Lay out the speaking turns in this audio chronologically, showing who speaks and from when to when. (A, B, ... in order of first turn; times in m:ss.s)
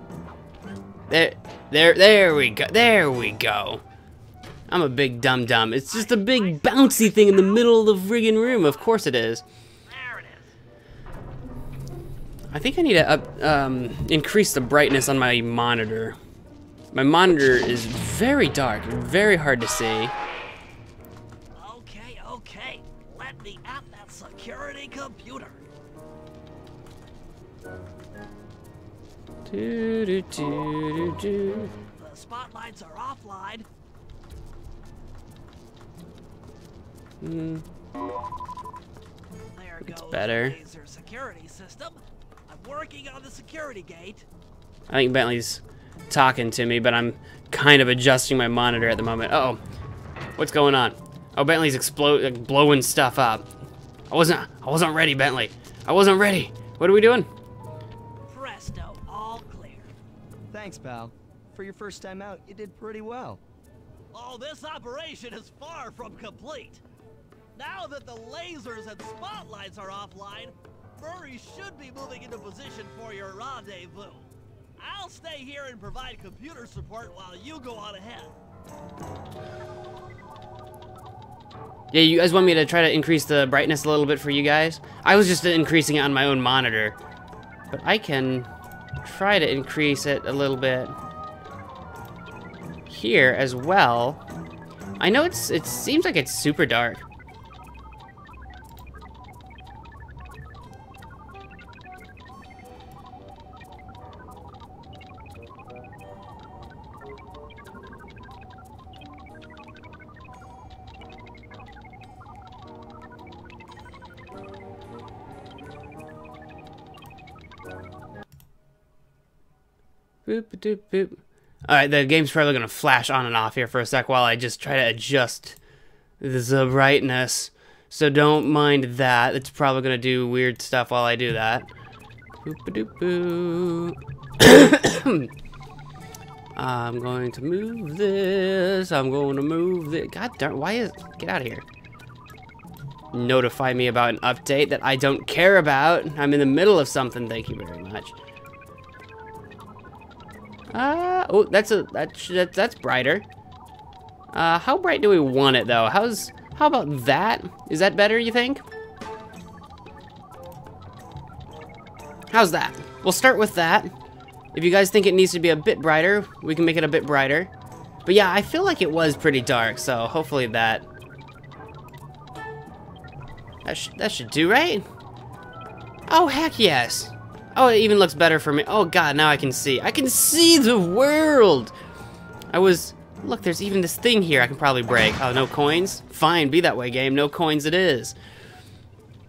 0:01.1-0:03.8 A
0:04.7-0:09.4 A
0:05.9-0:07.8 B
0:08.4-0:08.9 B
0:09.8-0:10.6 B
0:12.5-0:16.2 A
0:16.9-0:20.1 A
0:21.6-0:25.6 B
0:29.5-0:31.7 A
0:32.0-0:33.7 B
0:37.2-0:37.6 A
0:39.5-0:44.2 B
0:39.9-0:40.6 A
0:44.9-0:49.6 A
0:50.4-0:53.5 A
0:54.1-0:57.3 A
0:58.3-0:59.9 B
1:00.5-1:03.4 C
1:04.1-1:06.8 B
1:07.6-1:18.3 B
1:21.9-1:27.0 A
1:27.7-1:28.5 A
1:29.0-1:31.0 A
1:32.9-1:34.2 A
1:35.0-1:37.0 A
2:00.3-2:05.6 A
2:06.2-2:11.7 A
2:12.4-2:15.3 A
2:16.6-2:21.6 A
2:23.1-2:28.2 A
2:30.7-2:33.3 A
2:34.3-2:38.6 A
2:42.3-2:43.9 A
2:44.5-2:47.5 A
2:48.1-2:50.9 A
2:53.6-2:54.9 A
2:56.1-3:01.7 A
3:02.5-3:08.2 A